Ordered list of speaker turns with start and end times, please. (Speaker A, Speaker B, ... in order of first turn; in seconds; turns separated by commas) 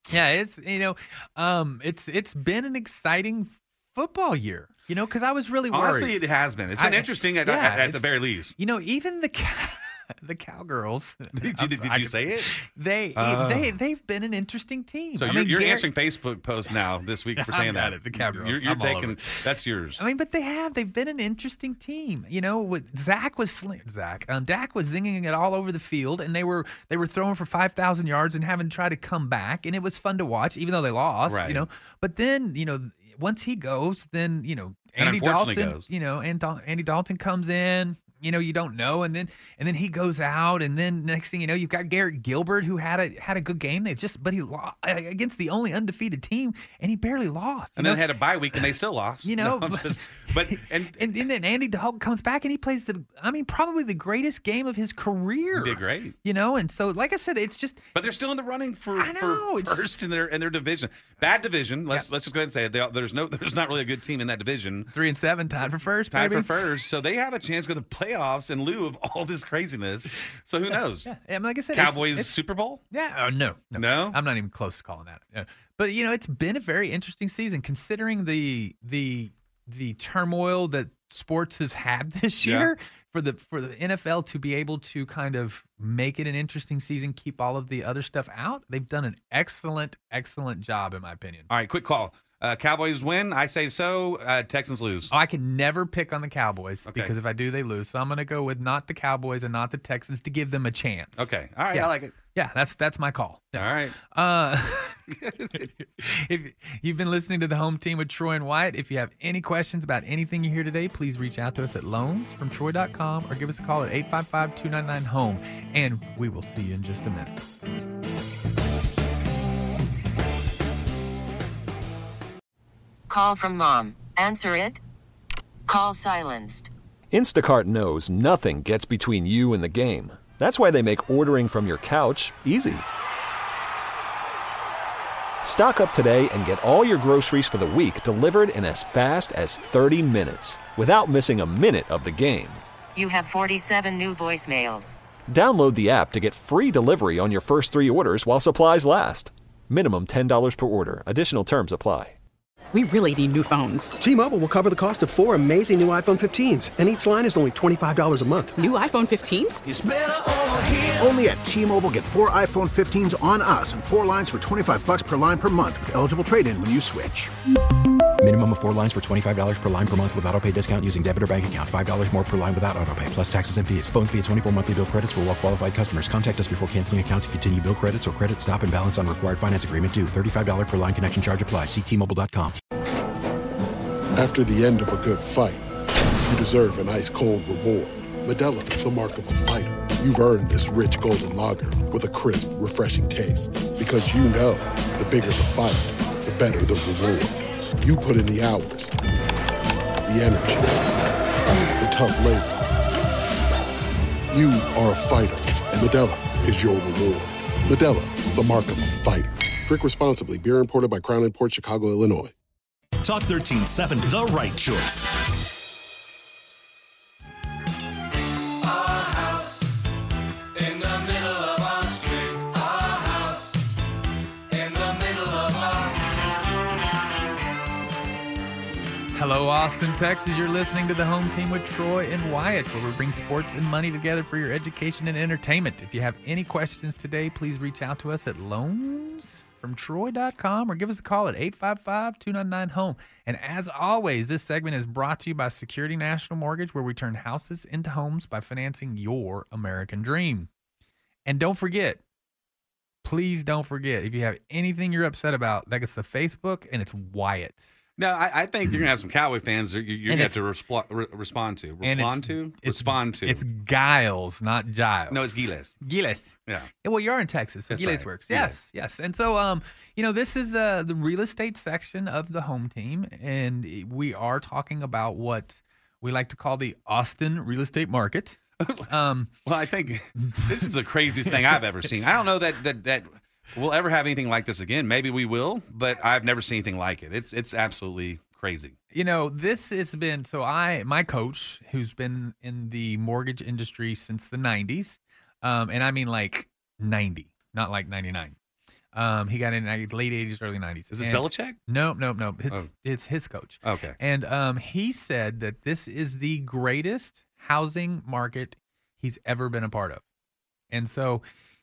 Speaker A: 0.1-6.2, Speaker B: 5.7-8.6, Speaker A: 6.8-8.1, Speaker A: 8.6-15.9, Speaker B: 11.3-12.5, Speaker B: 13.2-13.8, Speaker B: 15.2-20.0, Speaker A: 17.4-19.4, Speaker A: 20.0-48.1, Speaker B: 31.3-31.7, Speaker B: 35.0-35.9, Speaker B: 47.8-51.1, Speaker A: 49.2-57.8, Speaker B: 55.5-56.1, Speaker B: 58.0-64.9, Speaker A: 59.0-59.9, Speaker A: 64.9-66.5, Speaker B: 66.1-71.1, Speaker A: 71.0-72.3, Speaker B: 71.7-72.8, Speaker A: 72.9-91.5, Speaker B: 73.8-74.2, Speaker B: 82.4-82.7, Speaker B: 91.5-95.1, Speaker A: 95.1-117.4, Speaker B: 96.9-97.1, Speaker B: 101.2-102.2, Speaker B: 103.5-104.0, Speaker B: 105.1-105.7, Speaker C: 123.1-124.8, Speaker C: 125.7-126.7, Speaker D: 127.1-132.8, Speaker D: 135.4-142.6, Speaker C: 142.9-145.0, Speaker D: 145.3-152.2, Speaker E: 152.7-154.0, Speaker F: 154.0-158.6, Speaker E: 158.6-159.7, Speaker G: 159.7-167.3, Speaker H: 168.2-182.6, Speaker I: 184.2-185.6, Speaker I: 186.2-199.0, Speaker I: 200.1-200.9, Speaker I: 201.8-202.7, Speaker I: 204.3-212.3, Speaker J: 213.0-215.1, Speaker A: 229.1-250.5, Speaker A: 251.3-252.0, Speaker A: 253.0-257.6, Speaker B: 258.0-263.4, Speaker A: 260.1-260.4, Speaker A: 261.8-279.3, Speaker B: 265.1-265.8, Speaker B: 267.7-268.6, Speaker B: 278.6-278.9, Speaker B: 279.4-288.8, Speaker A: 280.2-280.5, Speaker A: 288.9-298.4, Speaker A: 298.9-310.0, Speaker B: 300.9-301.6, Speaker B: 303.6-304.0, Speaker A: 310.7-311.2